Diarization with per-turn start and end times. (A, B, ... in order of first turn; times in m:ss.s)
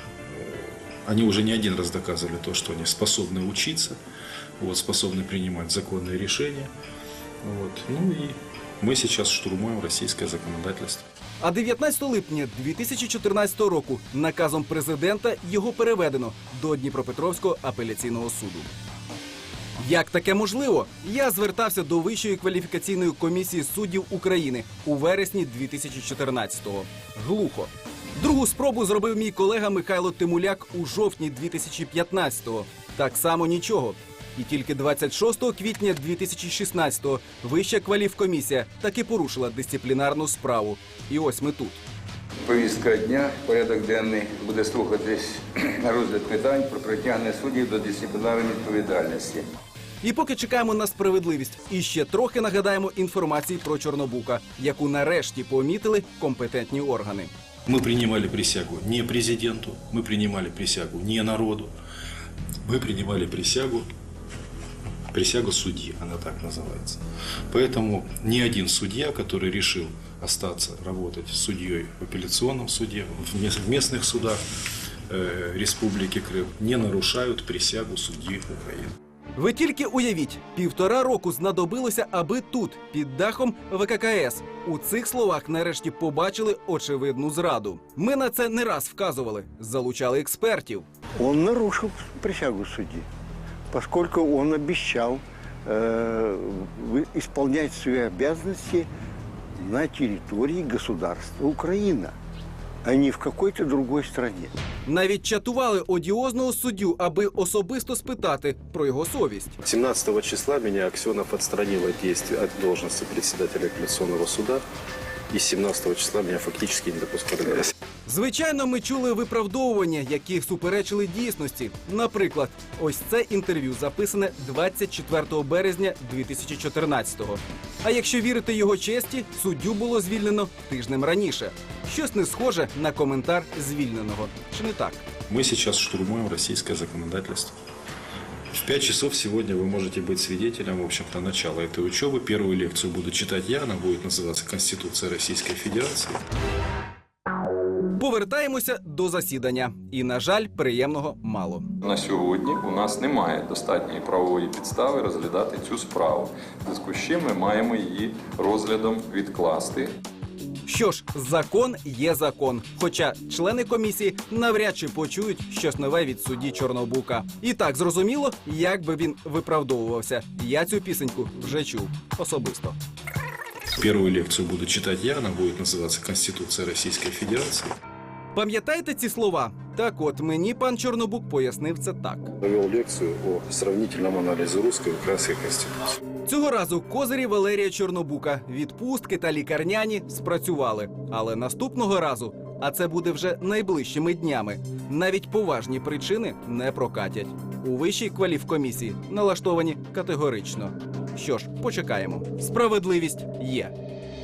0:00.3-0:04.0 A
0:04.6-0:06.7 A
0:07.4-0:11.0 A
0:11.4-0:18.7 B
0:19.8-0:41.8 B
0:42.4-0:49.5 C
0:50.0-0:57.3 B
0:57.6-1:01.7 A
1:02.6-1:03.9 A
1:05.1-1:14.4 A
1:15.1-1:18.9 A
1:19.4-1:30.8 B
1:31.2-1:33.0 D
1:33.7-1:38.9 D
1:39.6-1:42.1 D
1:42.8-1:44.5 D
1:44.8-1:49.6 B
1:49.6-1:54.6 E
1:55.3-1:57.7 E
1:58.0-2:15.1 B
2:15.3-2:17.5 A
2:18.5-2:26.2 A
2:27.9-2:31.7 B
2:31.8-2:40.0 F
2:40.7-2:52.8 B
2:53.8-2:57.7 A
2:58.3-3:02.3 B
3:02.4-3:06.0 E
3:06.2-3:23.7 B